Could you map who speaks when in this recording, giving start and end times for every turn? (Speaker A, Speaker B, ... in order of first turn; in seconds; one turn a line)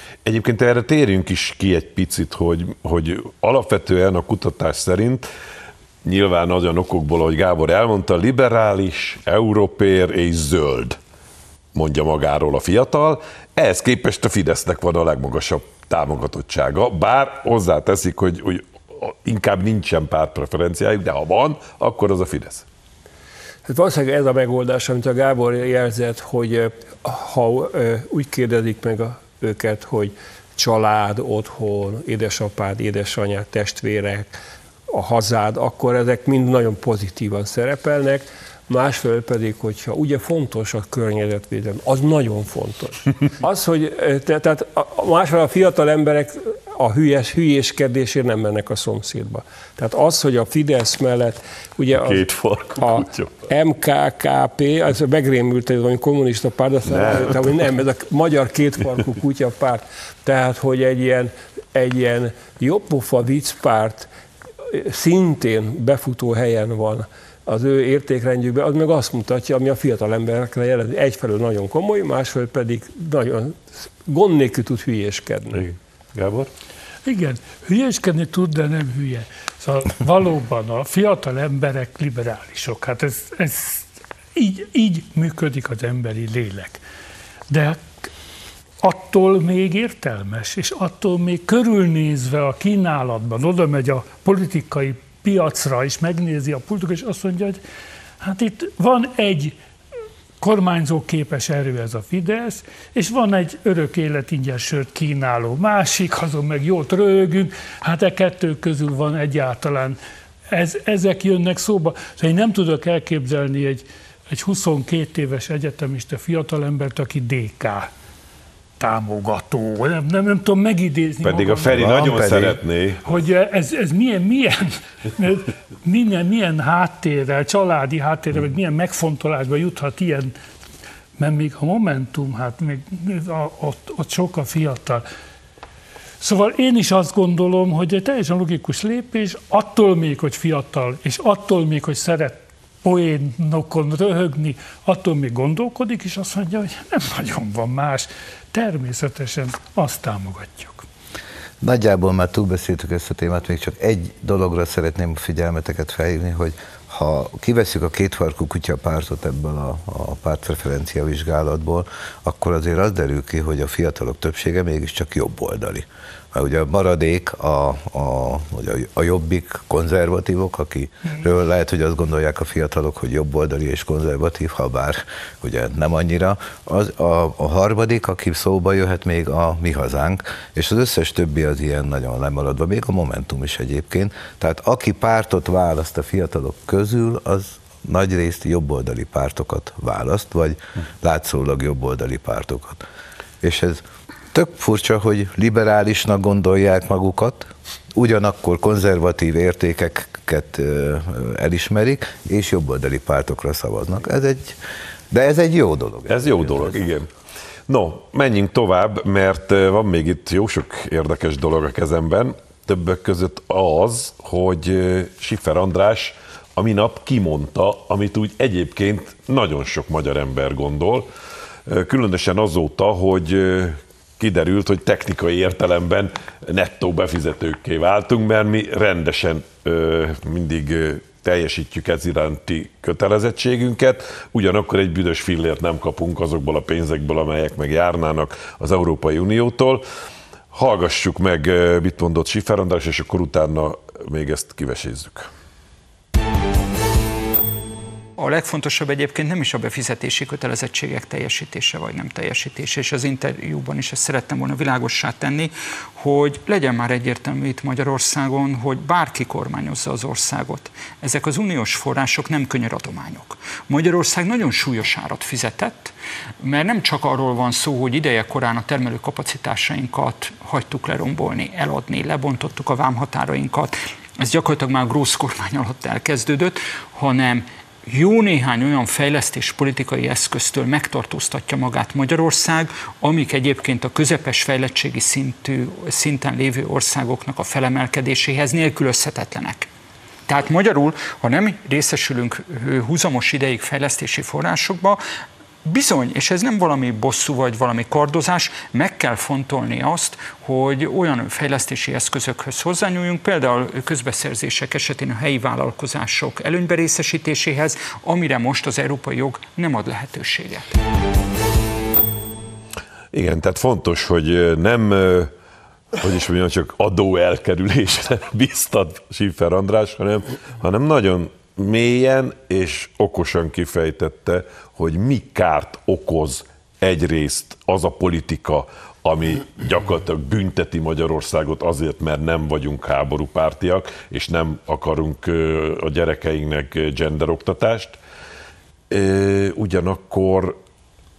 Speaker A: 0.2-5.3
Speaker A: 6.0-11.0
Speaker A: 11.7-22.6
Speaker B: 23.7-34.4
Speaker B: 34.9-52.2
Speaker A: 51.9-53.4
Speaker B: 52.8-64.1
Speaker A: 56.8-57.5
Speaker B: 64.7-75.7
Speaker A: 75.5-76.5
Speaker C: 77.0-86.8
Speaker C: 87.5-87.8
Speaker C: 88.8-97.6
Speaker C: 98.2-99.5
Speaker C: 100.4-110.0
Speaker C: 110.5-117.9
Speaker C: 118.8-122.1
Speaker A: 121.2-123.0
Speaker D: 121.7-122.6
Speaker C: 123.0-130.3
Speaker C: 131.2-135.0
Speaker C: 136.2-150.8
Speaker D: 151.6-192.8
Speaker D: 193.4-204.6
Speaker D: 205.1-206.8
Speaker A: 206.1-207.1
Speaker A: 207.7-221.1
Speaker A: 221.7-239.8
Speaker A: 240.5-245.3
Speaker E: 248.2-289.7
Speaker E: 290.3-295.0
Speaker E: 295.6-310.8
Speaker A: 313.1-315.3
Speaker A: 315.9-338.0
Speaker A: 338.9-340.6